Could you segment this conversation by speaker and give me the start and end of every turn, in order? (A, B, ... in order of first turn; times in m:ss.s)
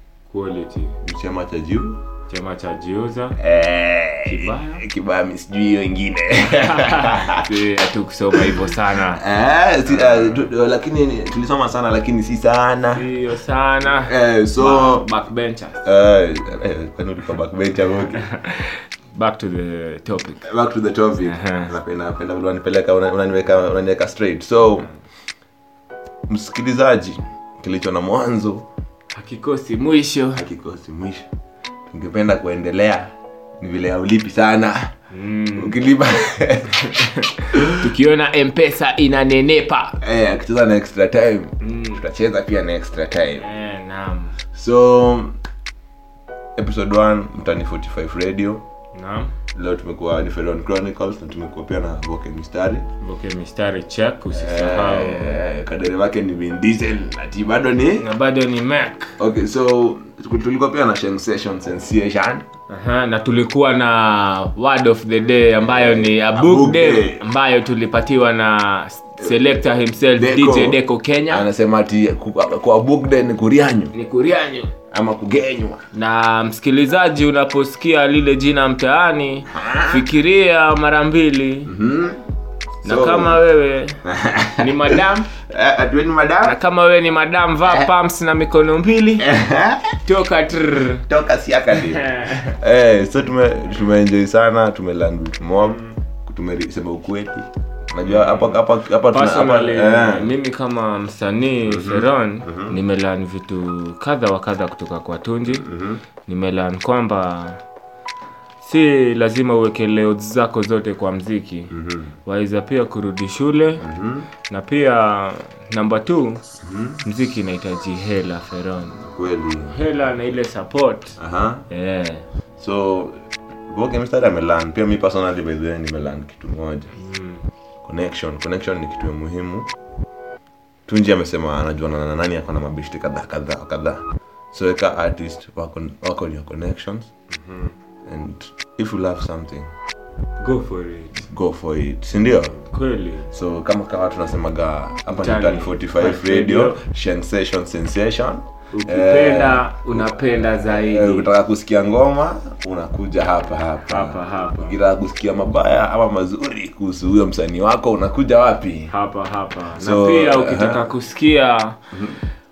0:00.3-0:01.0 A
0:01.0-0:02.0 B
0:02.3-0:03.4 A
0:03.4-0:07.5 B
0:04.2-0:04.8 A
0:06.5-0:09.2 A
0:08.3-0:13.1 B
0:09.9-0:10.4 A
0:12.9-0:15.8 A
0:14.0-0:15.1 B
0:15.8-0:18.2 B
0:18.2-0:20.4 A
0:20.4-0:24.9 B
0:21.2-0:21.7 A
0:26.3-0:28.7 B
0:29.1-0:30.4 A
0:30.3-0:31.3 B
0:31.9-0:34.9 B
0:35.1-0:35.8 A
0:35.6-0:37.8 B
0:36.8-0:40.0 A
0:40.0-0:43.5 B
0:41.6-0:42.0 A
0:43.4-0:44.4 A
0:44.5-0:45.4 B
0:46.6-0:48.6 B
0:48.9-0:49.3 A
0:49.5-0:52.9 B
0:53.0-0:55.4 A
0:54.3-0:58.1 B
0:58.0-0:59.2 A
0:59.2-1:02.4 B
1:02.7-1:11.5 A
1:05.6-1:07.2 B
1:10.2-1:10.8 B
1:11.3-1:13.9 B
1:13.9-1:14.7 A
1:14.9-1:15.8 B
1:15.9-1:21.7 A
1:19.5-1:20.0 B
1:21.6-1:22.2 B
1:22.8-1:23.4 B
1:22.8-1:24.0 A
1:24.0-1:26.6 B
1:24.6-1:25.3 A
1:26.4-1:29.3 A
1:29.2-1:29.9 B
1:30.0-1:31.0 A
1:31.1-1:40.3 B
1:31.7-1:32.6 A
1:38.0-1:38.6 A
1:39.1-1:45.7 A
1:41.6-1:42.8 B
1:45.5-1:46.0 B
1:46.2-1:47.6 A
1:48.6-1:53.8 A
1:51.7-1:52.1 B
1:53.8-1:54.3 B
1:54.5-1:56.4 A
1:56.6-1:57.0 B
1:57.0-1:59.1 A
1:59.1-1:59.7 B
1:59.7-2:01.2 A
2:01.2-2:01.6 B
2:01.7-2:02.3 A
2:02.6-2:06.9 B
2:07.0-2:07.4 A
2:07.8-2:09.7 B
2:10.9-2:17.1 B
2:17.3-2:17.7 A
2:18.0-2:19.7 B
2:20.4-2:21.3 A
2:21.2-2:22.6 B
2:22.6-2:23.3 A
2:23.3-2:38.9 B
2:25.1-2:26.8 A
2:28.7-2:31.3 A
2:33.9-2:34.8 A
2:38.9-2:41.8 A
2:39.8-2:40.9 B